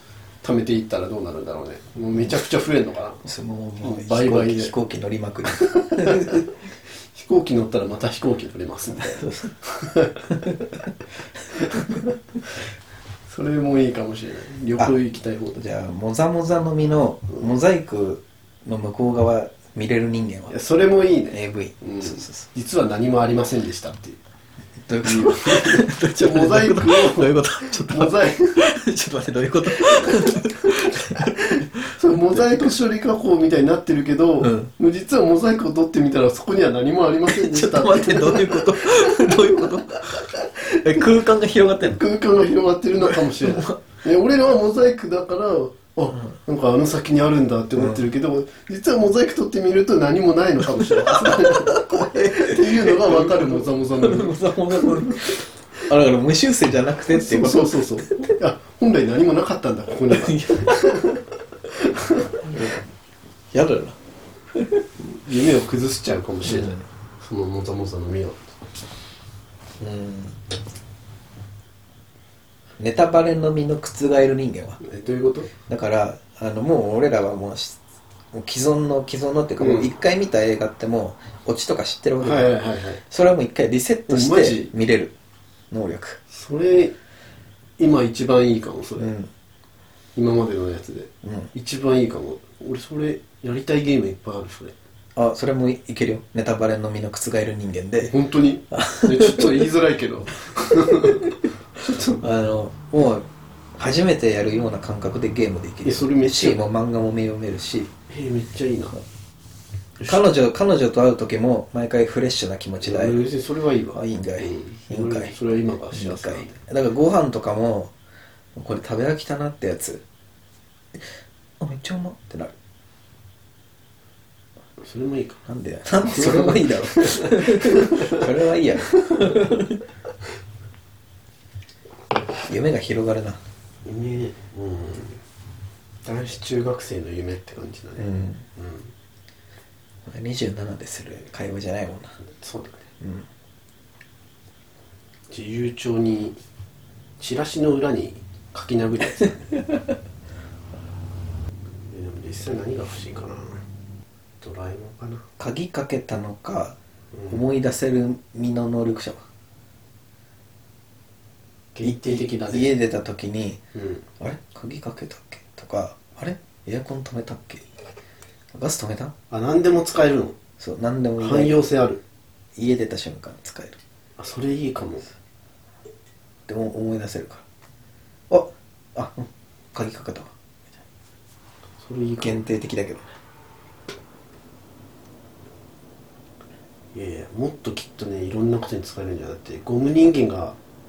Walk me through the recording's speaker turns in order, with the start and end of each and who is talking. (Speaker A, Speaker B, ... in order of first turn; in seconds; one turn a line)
Speaker A: 0.4-3.3
Speaker B: 3.2-6.5
Speaker A: 3.8-4.7
Speaker A: 5.5-6.5
Speaker A: 7.1-10.5
Speaker B: 9.0-9.5
Speaker B: 10.3-10.6
Speaker A: 11.6-12.1
Speaker A: 13.3-15.6
Speaker B: 15.6-20.6
Speaker A: 20.5-24.2
Speaker B: 21.3-22.5
Speaker B: 24.8-32.7
Speaker A: 25.0-28.6
Speaker A: 29.8-39.7
Speaker B: 34.4-34.7
Speaker B: 37.3-42.0
Speaker A: 41.9-55.3
Speaker B: 43.0-43.8
Speaker B: 50.8-58.1
Speaker A: 57.1-62.7
Speaker B: 60.1-61.1
Speaker B: 63.5-64.0
Speaker B: 64.5-64.8
Speaker A: 65.0-68.6
Speaker B: 66.5-66.8
Speaker B: 69.8-70.4
Speaker B: 72.8-74.8
Speaker A: 74.8-75.5
Speaker B: 75.7-77.8
Speaker B: 78.3-82.5
Speaker A: 79.6-79.9
Speaker A: 82.2-83.0
Speaker B: 83.1-85.1
Speaker A: 84.1-84.7
Speaker B: 85.7-86.2
Speaker A: 86.3-87.0
Speaker A: 87.8-89.1
Speaker B: 89.0-89.3
Speaker A: 90.2-94.8
Speaker B: 91.2-91.5
Speaker B: 95.2-98.1
Speaker A: 98.0-102.2
Speaker B: 98.7-99.7
Speaker B: 100.9-101.3
Speaker B: 102.1-107.9
Speaker A: 105.8-106.6
Speaker A: 108.1-109.0
Speaker B: 110.0-113.3
Speaker A: 112.8-116.6
Speaker B: 113.9-115.3
Speaker B: 115.9-117.9
Speaker B: 118.5-120.0
Speaker B: 121.6-122.5
Speaker A: 124.8-125.4
Speaker B: 125.5-129.8
Speaker A: 126.0-128.2
Speaker A: 128.9-129.5
Speaker B: 132.4-133.4
Speaker A: 133.8-135.2
Speaker A: 136.0-138.9
Speaker B: 138.0-138.4
Speaker B: 140.1-142.2
Speaker A: 142.2-142.9
Speaker B: 143.0-143.3
Speaker A: 145.3-146.4
Speaker A: 147.2-149.7
Speaker A: 151.9-153.6
Speaker A: 154.4-155.3
Speaker B: 155.4-156.8
Speaker A: 157.1-157.4
Speaker B: 157.3-159.2
Speaker A: 161.8-162.7
Speaker B: 161.8-163.6
Speaker A: 163.8-164.1
Speaker B: 164.2-167.7
Speaker B: 168.5-169.1
Speaker A: 169.3-170.4
Speaker B: 170.6-171.6
Speaker A: 171.2-172.0
Speaker B: 172.6-173.8
Speaker A: 174.2-175.1
Speaker B: 176.5-177.4
Speaker B: 178.3-180.3
Speaker A: 181.8-182.4
Speaker B: 182.2-183.1
Speaker A: 186.9-190.6